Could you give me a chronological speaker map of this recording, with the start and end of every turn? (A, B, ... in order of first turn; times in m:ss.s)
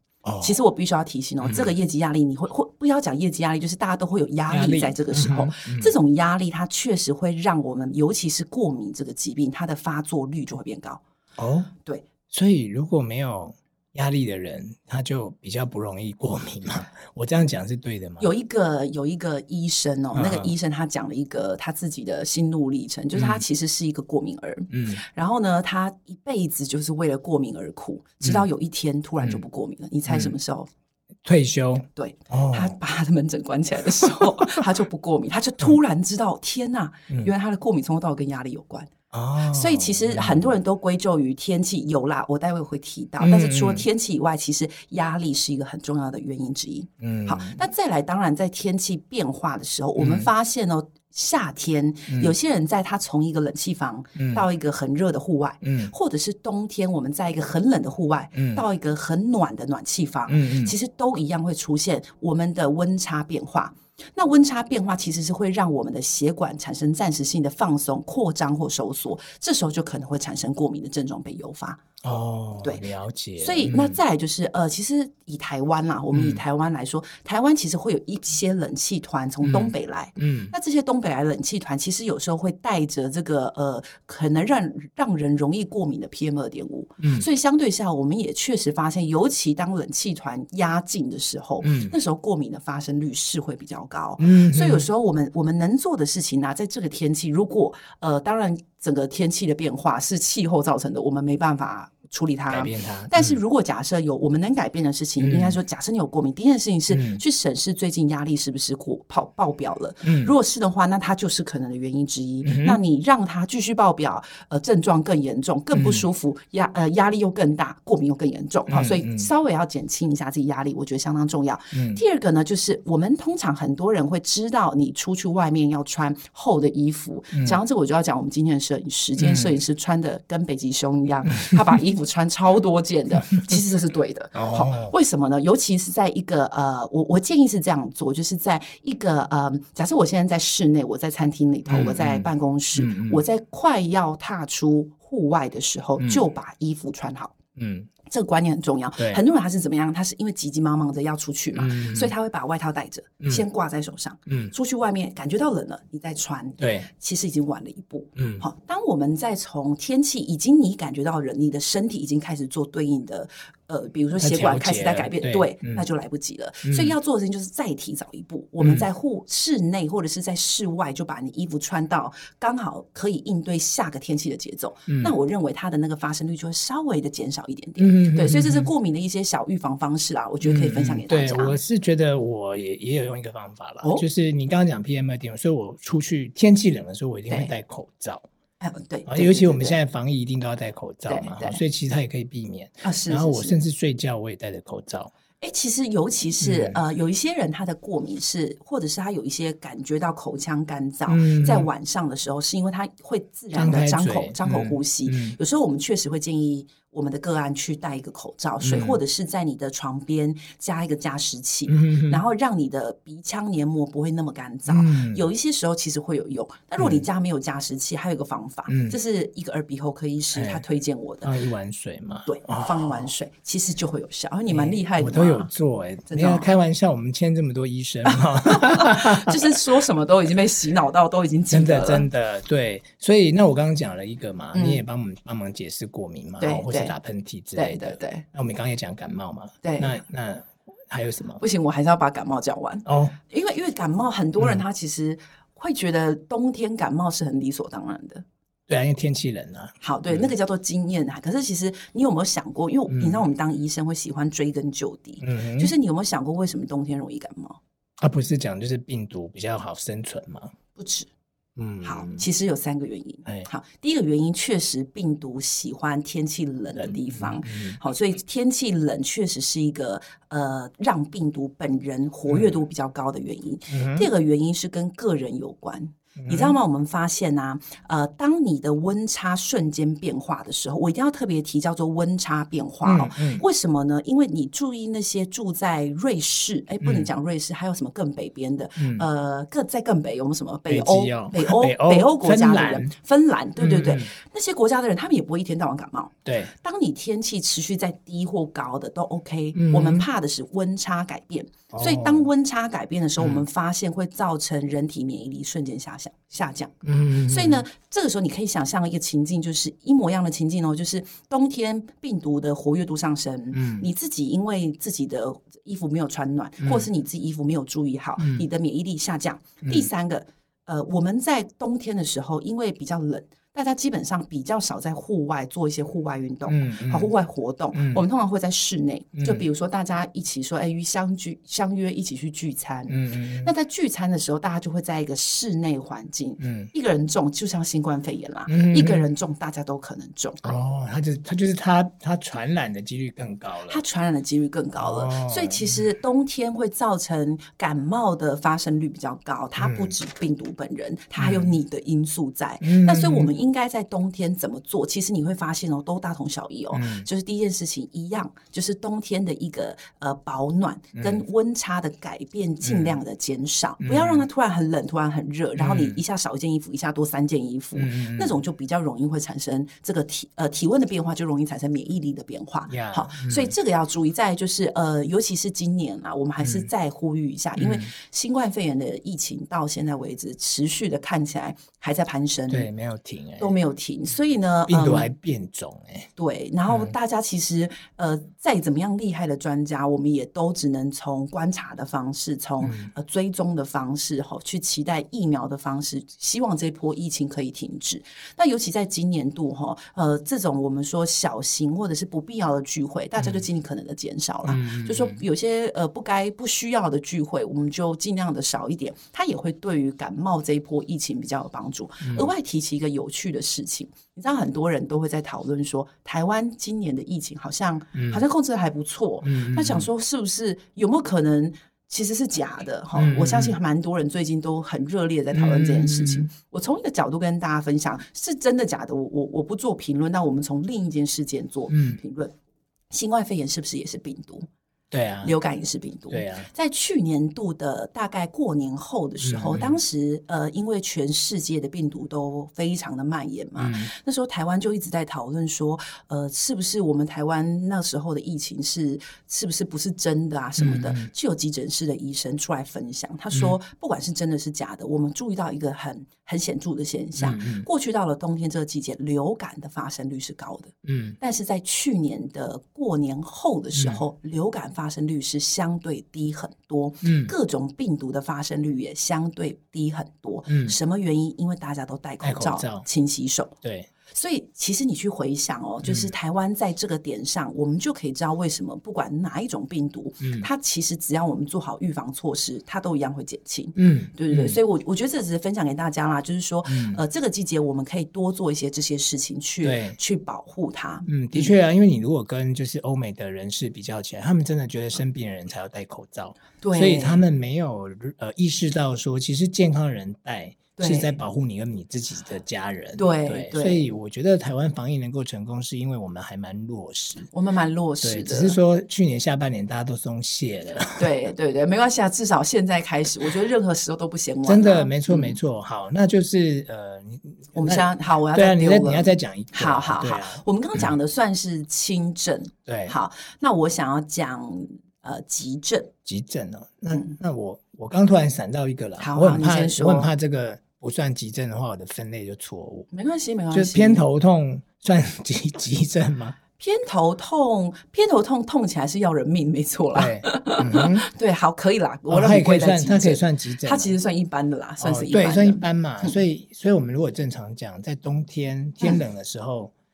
0:00.2-0:00.6 A
0:00.4-0:11.0 B
0:01.4-0:01.7 A
0:04.5-0:05.9 A
0:11.4-0:11.7 A
0:12.3-0:18.3 A
0:18.2-0:30.7 B
0:20.1-0:20.5 A
0:23.1-0:23.4 A
0:24.7-0:25.0 A
0:28.2-0:28.5 A
0:30.0-0:30.3 A
0:31.2-0:32.7 A
0:32.0-0:38.9 B
0:39.1-0:40.5 A
0:39.5-1:11.8 B
0:43.2-0:43.8 A
0:47.0-0:47.6 A
0:50.0-0:50.3 A
0:52.1-0:52.3 A
0:54.2-0:54.4 A
0:55.6-0:55.9 A
0:58.3-0:58.6 A
1:00.3-1:00.8 A
1:12.0-1:14.0 A
1:13.4-2:27.3 B
1:16.1-1:16.4 A
1:19.4-1:20.5 A
1:27.0-1:27.2 A
1:31.6-1:31.9 A
1:34.2-1:34.8 A
1:42.5-1:43.4 A
1:45.2-1:45.6 A
1:46.9-1:47.2 A
1:50.0-1:50.3 A
1:52.4-1:52.8 A
1:55.7-1:56.0 A
1:58.7-1:59.3 A
2:01.7-2:02.0 A
2:07.3-2:07.6 A
2:09.2-2:09.5 A
2:14.3-2:14.9 A
2:21.7-2:23.2 A
2:27.6-2:27.9 A
2:28.0-3:01.6 B
2:29.0-2:29.2 A
2:31.5-2:32.1 A
2:34.3-2:34.5 A
2:36.6-2:36.9 A
2:38.2-2:38.4 A
2:44.2-2:45.9 A
2:46.6-2:46.9 A
2:48.6-2:48.8 A
2:54.9-2:55.1 A
2:57.8-2:58.7 A
3:00.4-3:08.2 A
3:08.6-3:09.8 B
3:09.0-3:15.1 A
3:11.1-3:11.6 B
3:12.8-3:13.6 B
3:15.4-3:41.3 B
3:16.4-3:16.8 A
3:21.1-3:21.7 A
3:23.5-3:25.4 A
3:28.6-3:29.0 A
3:31.7-3:32.2 A
3:34.7-3:35.3 A
3:36.8-3:37.1 A
3:38.7-3:39.0 A
3:40.3-3:40.6 A
3:41.2-3:43.1 A
3:42.2-3:45.5 B
3:44.5-3:49.3 A
3:46.1-3:46.5 B
3:48.0-3:52.1 B
3:51.5-4:01.4 A
3:54.5-3:54.8 B
3:56.4-3:56.9 B
3:57.6-3:58.2 B
3:59.6-4:00.0 B
4:01.4-4:08.2 B
4:02.8-4:03.2 A
4:04.4-4:04.6 A
4:08.7-4:10.3 A
4:09.8-4:17.6 B
4:12.9-4:13.2 A
4:15.2-4:15.7 A
4:18.0-4:20.5 A
4:20.8-4:21.1 B
4:21.6-4:22.2 A
4:21.8-5:06.7 B
4:26.8-4:27.8 A
4:32.3-4:32.5 A
4:33.7-4:34.1 A
4:36.2-4:36.6 A
4:42.8-4:43.4 A
4:46.8-4:47.1 A
4:48.8-4:49.1 A
4:50.7-4:52.9 A
4:53.6-4:54.1 A
4:56.2-4:56.5 A
4:59.5-5:00.1 A
5:01.7-5:02.2 A
5:03.2-5:03.4 A
5:06.8-5:07.6 A
5:07.3-5:40.4 B
5:13.5-5:13.9 A
5:16.6-5:16.9 A
5:18.2-5:18.4 A
5:19.6-5:19.9 A
5:26.5-5:27.1 A
5:27.7-5:28.0 A
5:29.2-5:29.4 A
5:32.9-5:33.5 A
5:36.4-5:36.7 A
5:38.5-5:39.1 A
5:40.4-5:43.8 A
5:43.7-6:22.7 B
5:44.8-5:45.8 A
5:49.6-5:50.0 A
5:51.2-5:51.6 A
5:52.6-5:53.3 A
5:56.7-5:57.1 A
6:01.0-6:01.2 A
6:02.6-6:03.0 A
6:03.8-6:04.2 A
6:05.6-6:06.0 A
6:07.8-6:08.4 A
6:12.7-6:13.5 A
6:16.4-6:16.7 A
6:17.6-6:17.9 A
6:22.5-6:23.5 A
6:23.4-6:25.1 B
6:24.7-6:26.1 A
6:26.2-7:12.3 B
6:32.6-6:32.9 A
6:43.2-6:43.4 A
6:44.4-6:45.2 A
6:52.0-6:52.3 A
6:57.9-6:58.2 A
6:59.2-6:59.9 A
7:02.9-7:03.6 A
7:05.3-7:06.3 A
7:11.7-7:12.0 A
7:12.9-7:14.4 B
7:14.9-7:15.3 A
7:15.2-7:53.5 B
7:16.1-7:16.5 A
7:19.2-7:19.8 A
7:23.6-7:23.9 A
7:30.6-7:31.1 A
7:33.3-7:33.6 A
7:37.2-7:37.7 A
7:40.8-7:41.2 A
7:43.7-7:44.0 A
7:47.0-7:47.3 A
7:50.5-7:50.8 A
7:52.2-7:52.8 A
7:53.6-7:53.9 A
7:54.1-8:11.5 B
7:55.8-7:56.1 A
8:00.2-8:00.5 A
8:03.8-8:04.6 A
8:06.6-8:07.0 A
8:09.6-8:10.0 A
8:11.1-8:27.3 A
8:16.6-8:17.2 B
8:20.8-8:21.2 B
8:23.0-8:23.9 B
8:27.3-8:28.6 B
8:28.0-8:31.1 A
8:31.0-8:35.4 B
8:34.4-8:40.4 A
8:37.5-8:45.9 B
8:42.6-8:42.9 A
8:46.0-8:52.9 A
8:49.0-8:50.1 B
8:52.9-8:54.0 B
8:53.5-8:56.4 A
8:56.6-9:06.2 B
8:59.9-9:01.1 A
9:02.1-9:03.9 A
9:04.8-9:09.7 A